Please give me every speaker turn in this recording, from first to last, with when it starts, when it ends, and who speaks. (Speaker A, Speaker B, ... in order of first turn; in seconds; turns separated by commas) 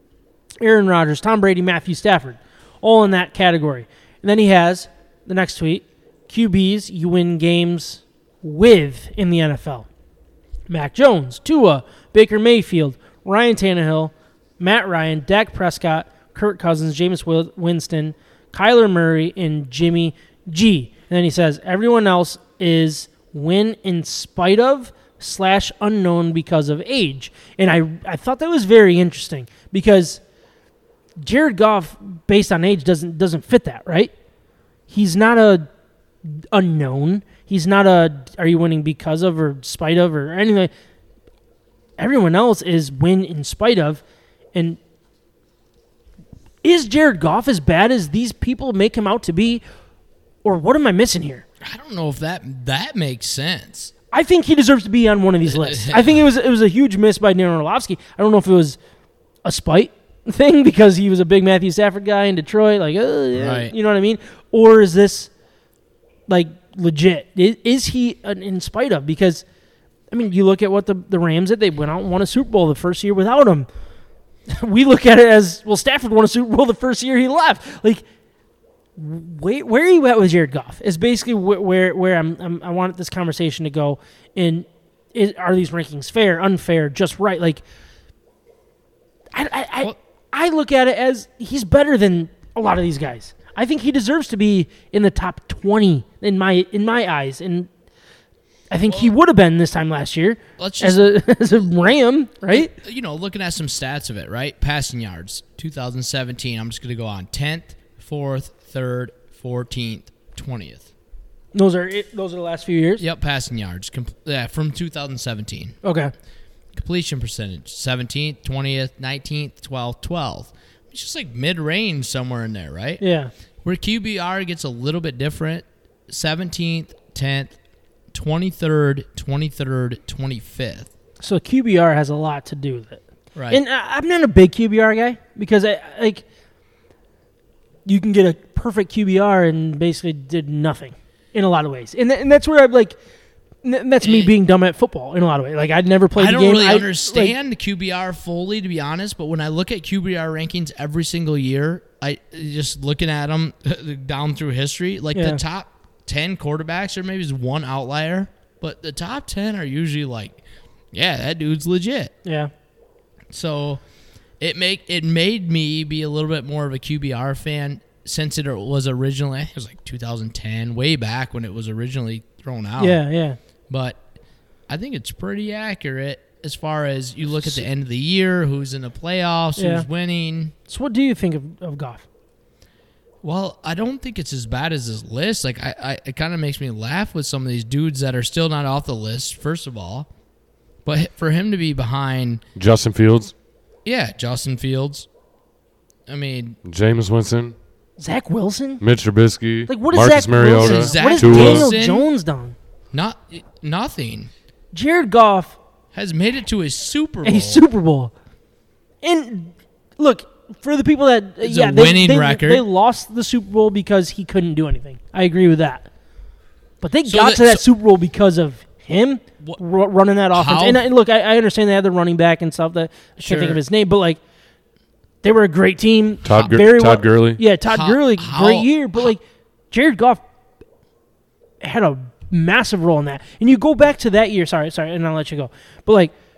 Speaker A: 0.6-9.9, Speaker A: 10.7-30.2, Speaker A: 31.2-34.1, Speaker A: 34.9-35.7, Speaker A: 36.5-40.7, Speaker A: 42.0-44.0, Speaker A: 44.5-44.8, Speaker A: 46.6-49.6, Speaker A: 50.4-51.4, Speaker B: 51.6-53.9, Speaker A: 54.1-58.8, Speaker B: 55.5-56.2, Speaker A: 59.4-65.3, Speaker B: 63.4-63.7, Speaker A: 66.3-69.4, Speaker A: 70.1-73.7, Speaker A: 74.5-78.0, Speaker A: 79.0-87.6, Speaker A: 89.3-97.7, Speaker A: 98.7-102.7, Speaker B: 100.6-101.1, Speaker B: 102.5-110.9, Speaker A: 111.5-113.0, Speaker B: 113.0-115.8, Speaker A: 115.8-116.1, Speaker B: 116.7-123.0, Speaker A: 123.0-123.3, Speaker B: 123.6-127.5, Speaker B: 128.1-130.9, Speaker A: 131.2-136.2, Speaker B: 133.3-133.6, Speaker A: 137.9-142.9, Speaker A: 143.6-147.3, Speaker B: 144.0-144.3, Speaker B: 146.2-160.4, Speaker A: 155.1-155.4, Speaker B: 160.9-162.1, Speaker A: 162.2-162.5, Speaker B: 163.3-163.8, Speaker B: 164.4-173.0, Speaker A: 172.8-173.4, Speaker B: 173.7-174.0, Speaker B: 174.7-180.5, Speaker A: 179.6-179.9, Speaker A: 180.7-182.1, Speaker B: 183.2-190.1, Speaker B: 190.8-192.4, Speaker C: 192.6-193.3, Speaker B: 193.8-195.1, Speaker B: 196.1-196.6, Speaker C: 196.6-197.6, Speaker A: 198.0-198.8, Speaker C: 198.8-201.7, Speaker A: 199.7-202.6, Speaker B: 200.5-202.1, Speaker B: 202.9-204.3, Speaker A: 204.7-205.6, Speaker B: 205.9-207.6, Speaker A: 207.2-208.1, Speaker A: 209.0-215.9, Speaker B: 211.4-212.6, Speaker A: 216.8-224.2, Speaker B: 217.1-217.6, Speaker B: 220.3-220.8, Speaker B: 223.2-223.6, Speaker A: 225.2-230.2, Speaker C: 226.2-227.4, Speaker B: 226.3-226.5, Speaker B: 227.7-229.1, Speaker A: 231.6-236.1